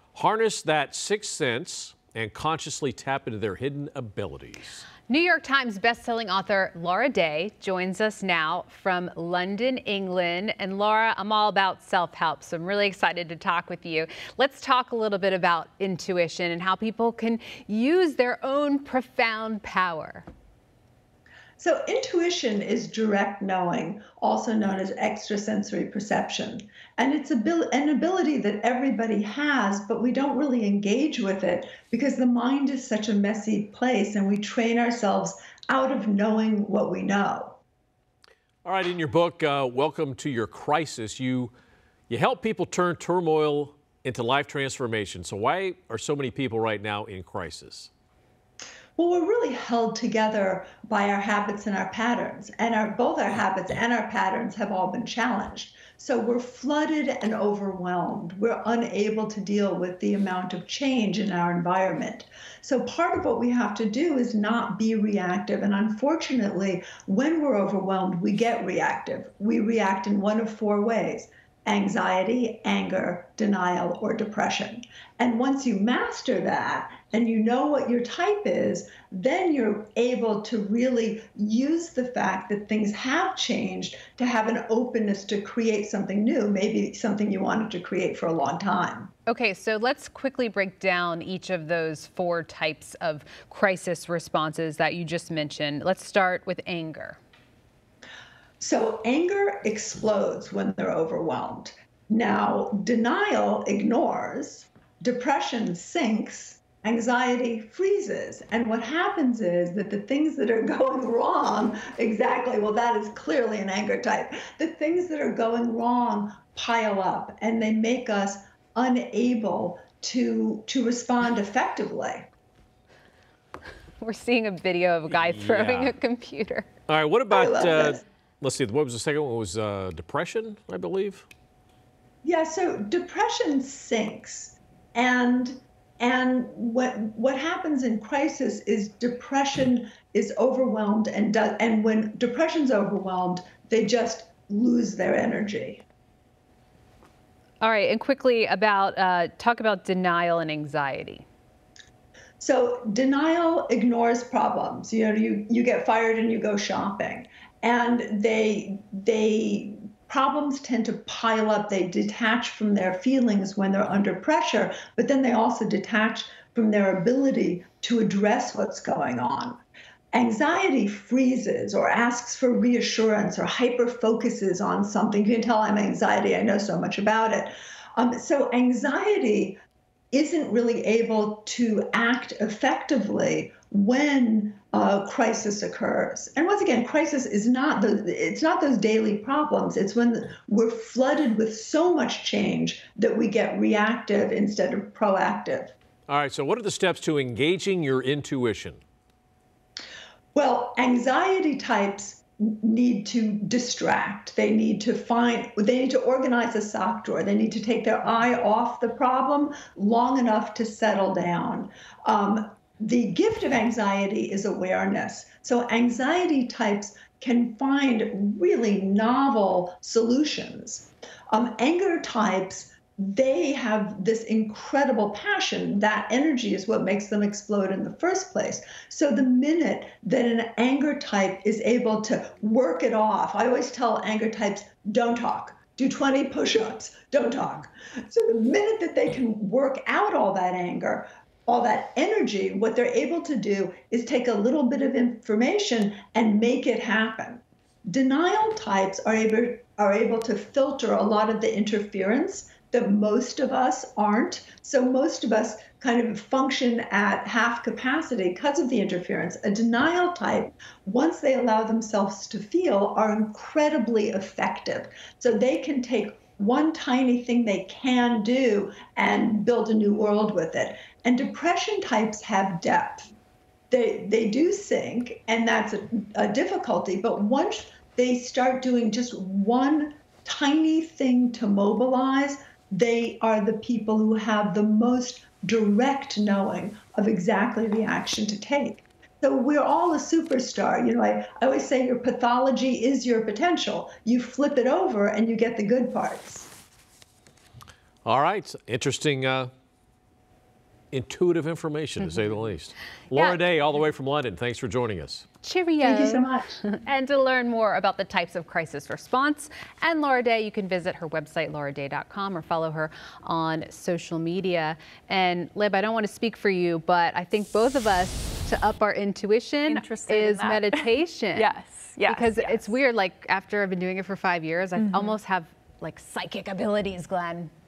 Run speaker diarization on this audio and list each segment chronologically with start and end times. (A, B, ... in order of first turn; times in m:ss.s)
0:00.1-0:04.8 A
0:05.1-0:20.3 B
0:21.6-0:37.6 C
0:38.6-0:41.5 A
0:42.1-0:47.9 A
0:49.0-1:29.1 C
1:29.3-1:37.2 B
1:38.6-2:02.3 C
2:04.0-2:06.7 B
2:05.1-2:05.9 A
2:06.9-2:11.2 A
2:07.3-2:08.0 C
2:12.2-2:25.8 C
2:27.6-2:31.2 B
2:32.4-2:49.6 C
2:50.1-2:59.6 C
3:00.1-3:15.7 C
3:16.1-3:18.8 A
3:20.3-4:33.1 C
4:33.7-4:56.5 C
4:58.0-4:59.5 A
5:00.9-5:05.2 A
5:03.1-5:03.4 B
5:05.4-5:21.5 B
5:05.8-5:06.5 C
5:19.7-5:22.7 D
5:22.1-5:27.5 B
5:24.8-5:25.0 D